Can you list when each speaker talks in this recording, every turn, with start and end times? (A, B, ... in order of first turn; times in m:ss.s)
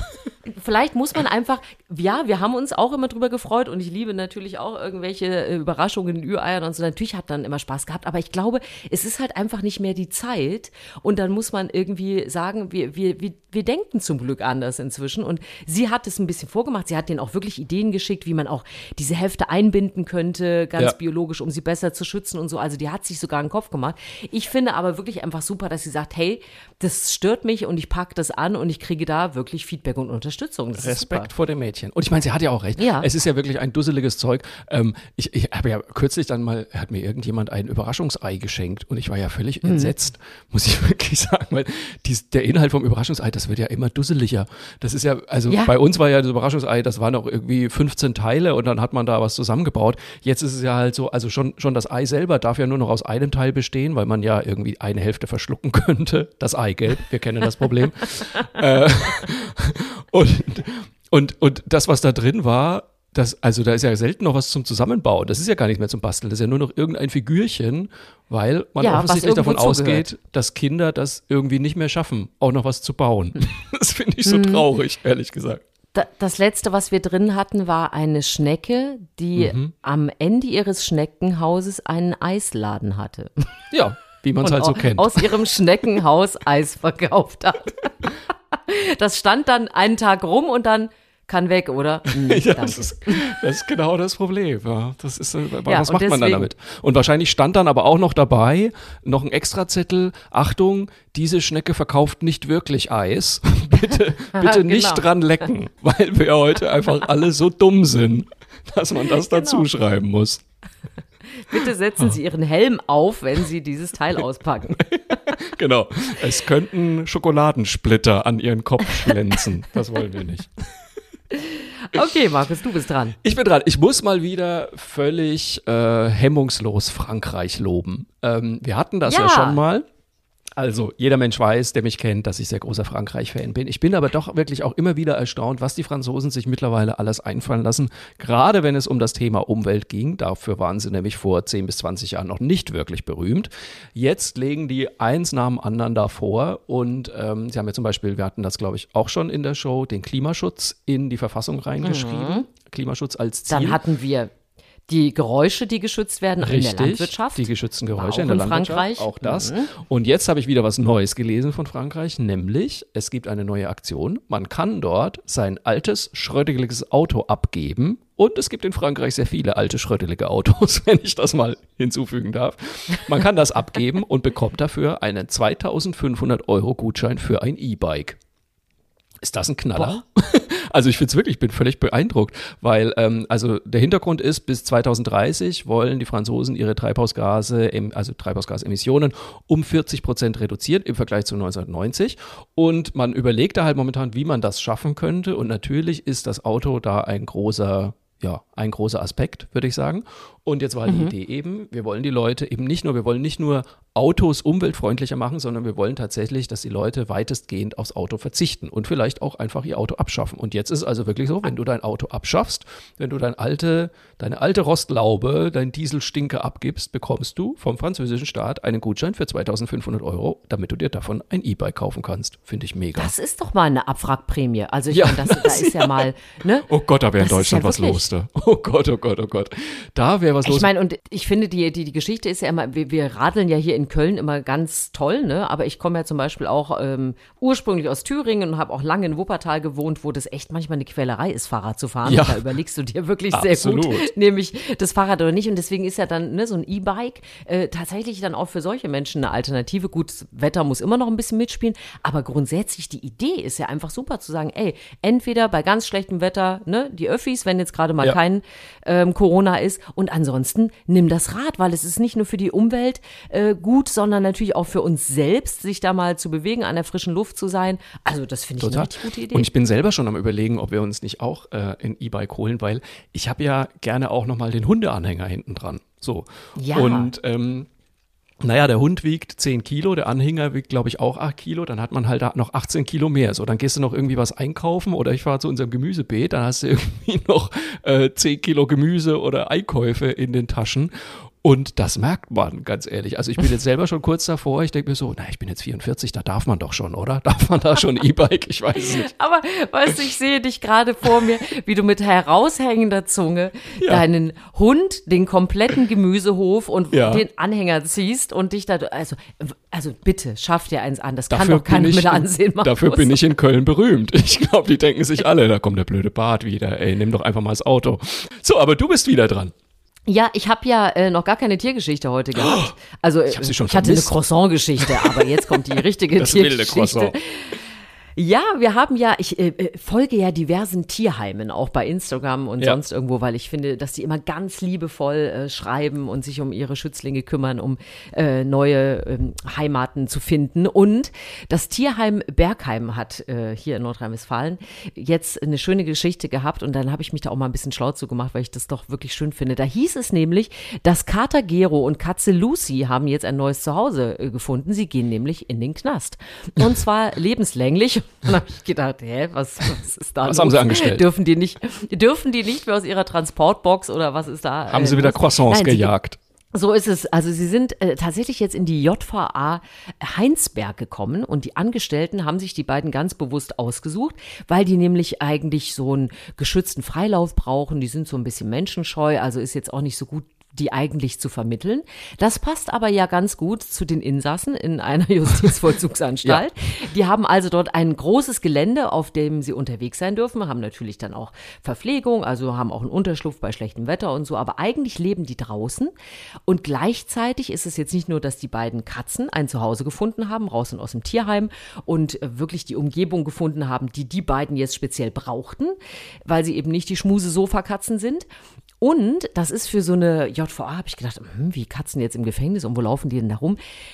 0:00.4-0:31.3 A
0:30.8-1:15.6 B
0:32.8-0:33.1 A
0:39.6-0:39.9 A
0:45.5-0:45.7 A
1:08.8-1:10.0 A
1:14.2-1:14.6 A
1:15.9-1:23.3 A
1:19.4-1:19.7 B
1:23.7-1:25.3 B
1:24.4-1:33.3 A
1:32.1-1:50.4 B
1:35.6-1:36.5 A
1:44.3-1:45.0 A
1:49.1-1:49.6 A
1:51.3-1:54.9 A
1:54.8-2:00.6 B
2:01.3-2:03.2 A
2:03.2-2:09.8 B
2:09.0-2:09.6 A
2:10.6-2:33.8 B
2:31.8-2:32.4 A
2:33.5-2:34.3 A
2:34.9-2:39.7 A
2:36.4-2:58.2 B
2:59.2-3:43.1 B
3:20.8-3:21.1 A
3:43.0-3:46.7 A
3:44.9-3:46.0 B
3:46.7-3:50.7 B
3:47.2-3:48.0 A
3:50.4-4:29.5 A
4:02.0-4:02.4 B
4:03.3-4:04.1 B
4:28.6-4:37.7 B
4:36.6-4:37.1 A
4:38.4-4:50.9 B
4:51.4-4:59.1 B
4:58.8-5:13.2 A
5:03.8-5:04.0 B
5:06.9-5:07.2 B
5:11.3-5:19.5 B
5:20.1-5:27.6 A
5:22.4-5:22.7 B
5:23.3-5:24.2 B
5:24.8-5:27.2 B
5:28.2-6:05.9 A
6:00.2-6:01.0 B
6:04.7-6:06.2 B
6:06.5-6:35.9 A
6:36.4-6:48.2 A
6:48.8-6:53.6 A